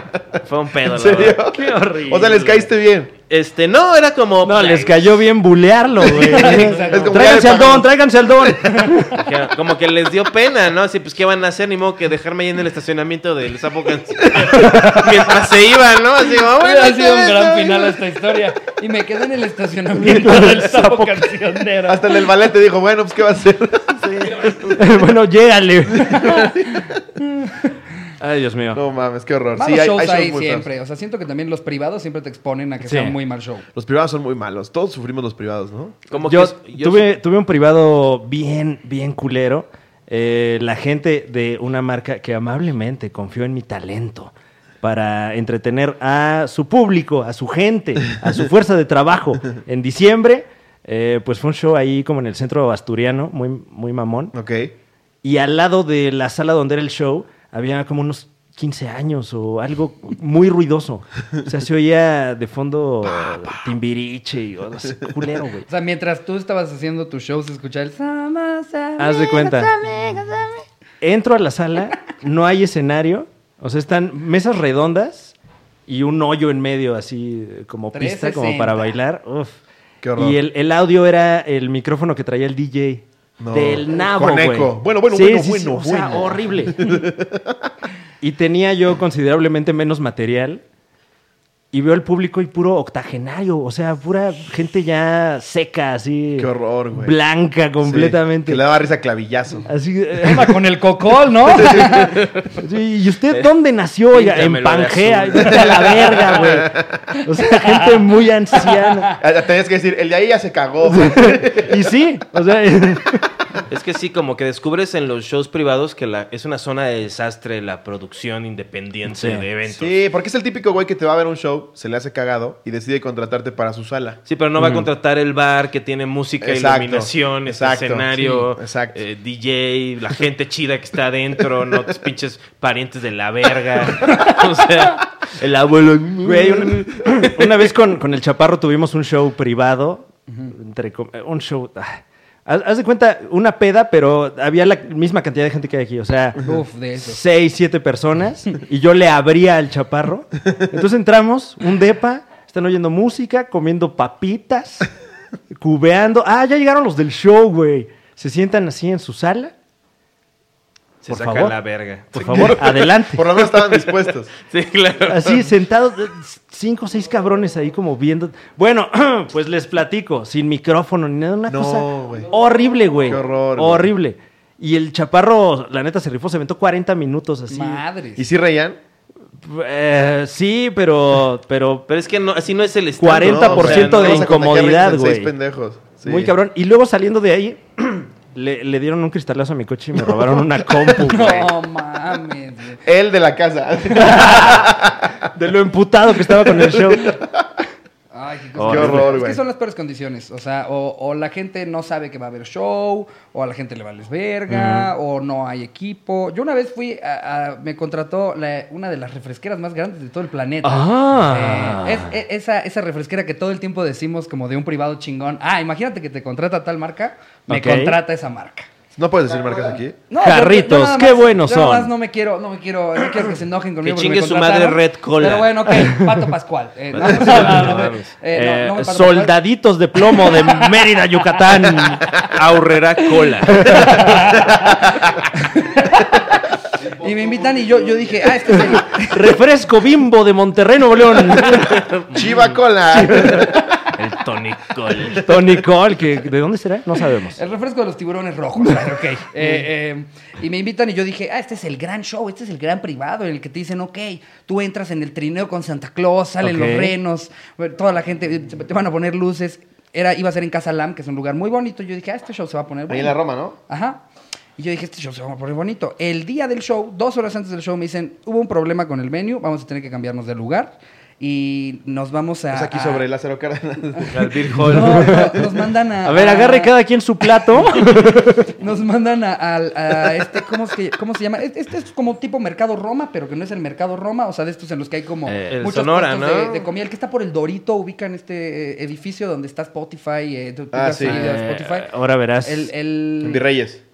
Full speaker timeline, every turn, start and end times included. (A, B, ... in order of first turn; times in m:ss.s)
0:00.4-0:01.4 A
0:00.9-0:03.1 B
0:01.4-0:02.5 C
0:03.3-0:05.2 A
0:04.4-0:09.2 C
0:06.0-0:07.0 A
0:06.2-0:07.2 D
0:06.7-0:07.9 B
0:08.6-0:09.0 D
0:09.1-0:18.0 A
0:16.4-0:22.3 D
0:19.9-0:21.3 C
0:21.8-0:24.1 B
0:24.0-0:26.5 C
0:26.0-0:27.0 B
0:28.2-0:28.8 C
0:28.7-0:30.7 B
0:29.6-0:33.6 D
0:32.8-0:33.2 C
0:33.7-0:36.0 B
0:36.1-0:37.1 A
0:36.2-0:54.3 C
0:54.3-0:54.7 B
0:55.2-1:05.6 C
1:05.7-1:10.6 D
1:09.0-1:09.8 C
1:11.0-1:15.3 C
1:15.9-1:19.6 C
1:17.9-1:18.9 D
1:20.0-1:20.4 B
1:20.2-1:26.9 C
1:23.4-1:27.7 B
1:28.2-1:30.6 C
1:31.7-1:38.6 C
1:36.4-1:37.1 B
1:37.8-1:39.7 B
1:39.7-1:40.6 C
1:40.2-1:42.2 D
1:41.4-1:42.1 B
1:42.0-1:42.5 A
1:42.6-1:49.1 C
1:44.1-1:45.9 A
1:46.2-1:46.9 B
1:47.6-1:47.9 D
1:48.8-1:49.1 D
1:49.2-1:51.8 B
1:50.8-1:53.2 C
1:53.7-1:59.9 A
1:59.1-1:59.4 C
1:59.7-2:04.2 B
2:04.3-2:17.6 A
2:04.6-2:04.9 C
2:06.4-2:09.0 B
2:16.2-2:26.4 C
2:26.4-2:27.2 D
2:27.0-2:34.9 C
2:35.5-2:39.5 C
2:41.0-2:42.8 A
2:41.1-2:41.6 C
2:42.1-2:43.2 C
2:42.2-2:44.3 B
2:43.4-2:45.5 A
2:45.1-2:57.8 C
2:51.5-2:52.3 B
2:53.0-2:53.9 B
2:57.5-2:58.2 D
2:58.2-2:58.8 B
2:59.4-3:01.9 C
3:01.9-3:04.3 A
3:03.0-3:05.3 C
3:03.1-3:06.3 B
3:06.0-3:11.5 C
3:10.9-3:12.8 D
3:12.8-3:15.2 B
3:13.9-3:14.7 C
3:15.3-3:17.2 C
3:16.7-3:17.4 B
3:18.1-3:38.7 D
3:18.6-3:19.2 C
3:18.6-3:19.4 B
3:24.5-3:24.9 C
3:30.6-3:32.2 C
3:37.5-3:38.0 C
3:38.9-3:40.0 B
3:40.1-3:49.3 D
3:40.2-3:41.9 C
3:43.8-3:45.9 A
3:45.8-3:46.2 C
3:46.9-3:48.1 A
3:47.3-3:47.8 C
3:48.3-3:52.1 C
3:50.0-3:50.8 D
3:51.5-3:52.1 D
3:52.2-3:54.2 A
3:53.2-3:54.3 D
3:53.5-3:54.1 C
3:54.4-3:55.0 B
3:55.4-3:56.2 D
3:56.8-3:59.4 D
3:58.7-4:01.9 C
4:01.3-4:02.4 A
4:02.1-4:03.8 B
4:02.9-4:03.6 C
4:03.9-4:05.3 A
4:05.1-4:07.4 C
4:07.3-4:23.1 D
4:16.4-4:16.9 C
4:22.9-4:23.6 B
4:23.7-4:24.0 D
4:24.6-4:33.0 D
4:32.5-4:34.5 B
4:34.1-4:35.3 A
4:34.6-4:36.7 D
4:34.7-4:35.4 C
4:36.0-4:38.5 C
4:37.4-4:51.9 D
4:45.2-4:45.7 C
4:45.5-4:46.7 A
4:50.7-4:51.2 B
4:51.0-4:52.7 C
4:52.4-4:53.4 D
4:53.2-4:53.8 B